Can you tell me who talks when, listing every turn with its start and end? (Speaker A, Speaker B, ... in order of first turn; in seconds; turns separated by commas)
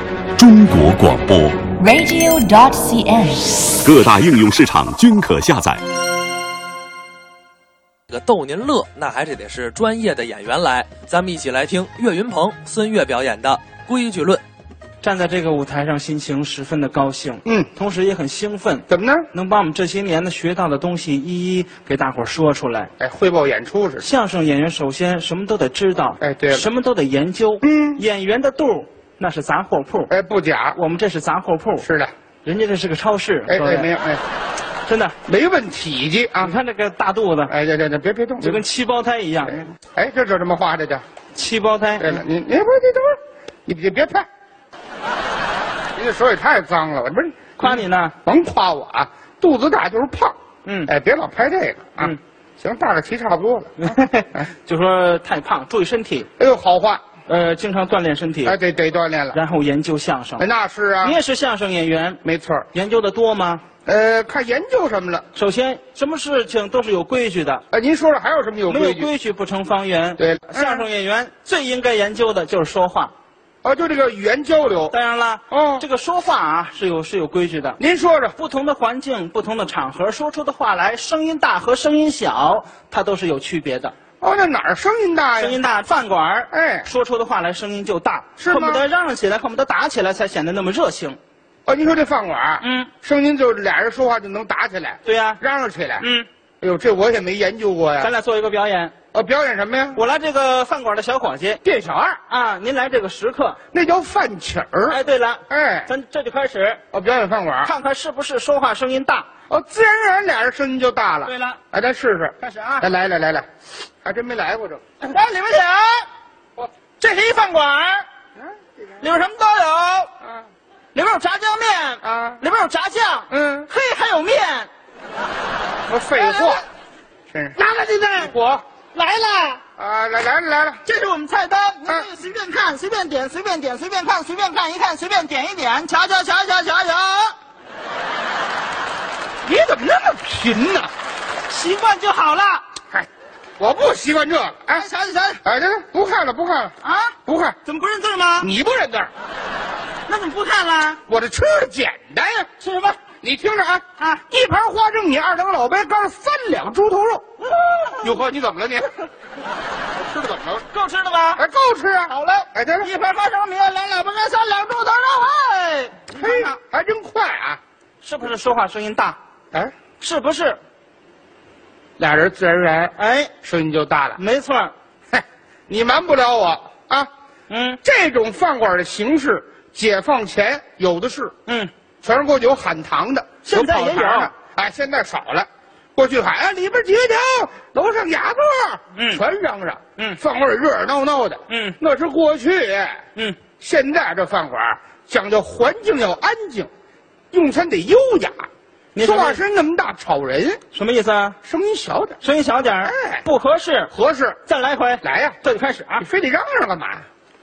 Speaker A: 0.4-1.7, Speaker B: 1.7-3.7, Speaker A: 3.8-5.8, Speaker C: 8.1-14.4, Speaker D: 15.0-22.9, Speaker E: 17.4-17.7, Speaker E: 18.9-19.3, Speaker E: 23.0-24.1, Speaker D: 24.0-30.1, Speaker E: 26.2-26.7, Speaker E: 27.6-28.0, Speaker E: 30.1-30.8, Speaker D: 30.8-31.9, Speaker E: 31.8-32.1, Speaker D: 32.4-33.9, Speaker E: 33.5-34.2, Speaker D: 34.9-35.2, Speaker E: 35.3-36.6, Speaker D: 36.4-37.5, Speaker E: 37.5-38.6, Speaker D: 38.4-39.6, Speaker E: 39.5-41.0, Speaker D: 41.3-42.2, Speaker E: 42.0-44.3, Speaker E: 46.0-53.7, Speaker D: 47.6-48.1, Speaker D: 50.6-50.9, Speaker D: 53.8-56.3, Speaker E: 56.4-57.0, Speaker D: 57.3-58.5, Speaker E: 58.4-59.4, Speaker D: 59.3-60.5, Speaker E: 60.4-61.2, Speaker D: 61.0-62.2, Speaker E: 62.2-62.7, Speaker D: 62.7-63.6, Speaker E: 63.8-65.2, Speaker D: 65.3-67.6, Speaker E: 67.7-69.1, Speaker D: 68.7-73.1, Speaker E: 70.2-70.9, Speaker E: 73.6-75.0, Speaker D: 74.9-77.8, Speaker E: 75.5-75.9, Speaker E: 77.8-78.3, Speaker D: 78.4-84.0, Speaker E: 84.2-85.6, Speaker D: 85.4-91.2, Speaker E: 86.5-86.9, Speaker E: 88.4-88.8, Speaker E: 91.7-96.1, Speaker D: 92.6-92.9, Speaker D: 95.0-95.4, Speaker D: 96.0-96.3, Speaker E: 96.6-98.1, Speaker D: 98.0-98.9, Speaker E: 99.1-100.0, Speaker D: 100.0-101.6, Speaker E: 101.6-102.2, Speaker D: 102.3-103.6, Speaker E: 103.7-105.9, Speaker D: 104.9-106.8, Speaker E: 106.9-107.7, Speaker D: 107.6-109.3, Speaker E: 109.5-113.5, Speaker D: 111.2-111.6, Speaker D: 112.4-112.9, Speaker E: 114.0-115.1, Speaker D: 115.1-116.1, Speaker D: 117.0-118.0, Speaker E: 118.4-119.2, Speaker D: 119.0-120.1, Speaker E: 120.2-120.5, Speaker D: 120.9-124.7, Speaker E: 122.0-122.4, Speaker E: 123.3-123.7, Speaker E: 125.9-126.7, Speaker D: 126.1-126.7, Speaker E: 127.3-127.6, Speaker D: 127.6-128.3, Speaker E: 128.1-128.6, Speaker D: 128.9-129.6, Speaker E: 129.8-130.8, Speaker D: 130.8-137.3, Speaker E: 139.4-140.9, Speaker D: 141.5-142.6, Speaker E: 143.6-144.9, Speaker D: 144.7-145.4, Speaker E: 145.4-146.7, Speaker D: 146.8-148.5, Speaker E: 147.2-147.6, Speaker E: 148.4-149.1, Speaker D: 150.1-151.0, Speaker E: 151.1-152.5, Speaker D: 152.6-153.0, Speaker E: 153.2-157.2, Speaker D: 154.0-154.2, Speaker D: 157.4-158.2, Speaker E: 158.0-158.9, Speaker E: 160.0-160.7, Speaker D: 160.7-161.4, Speaker E: 161.3-162.9, Speaker D: 162.1-166.6, Speaker E: 166.1-167.6, Speaker D: 168.0-169.2, Speaker D: 170.0-170.6, Speaker E: 172.0-174.2, Speaker D: 173.0-173.3, Speaker D: 174.2-174.7, Speaker E: 175.1-177.1, Speaker D: 177.5-177.8, Speaker E: 177.8-181.3, Speaker D: 181.5-181.7, Speaker E: 182.0-193.0, Speaker D: 183.4-184.3, Speaker D: 188.9-189.2, Speaker D: 191.5-191.8, Speaker E: 193.6-196.7, Speaker E: 197.3-200.6, Speaker D: 198.9-199.4, Speaker D: 200.7-201.4, Speaker E: 201.4-202.2, Speaker D: 202.2-203.9, Speaker E: 202.8-203.2, Speaker E: 203.9-204.4, Speaker D: 204.4-206.1, Speaker E: 205.0-205.4, Speaker E: 206.0-207.1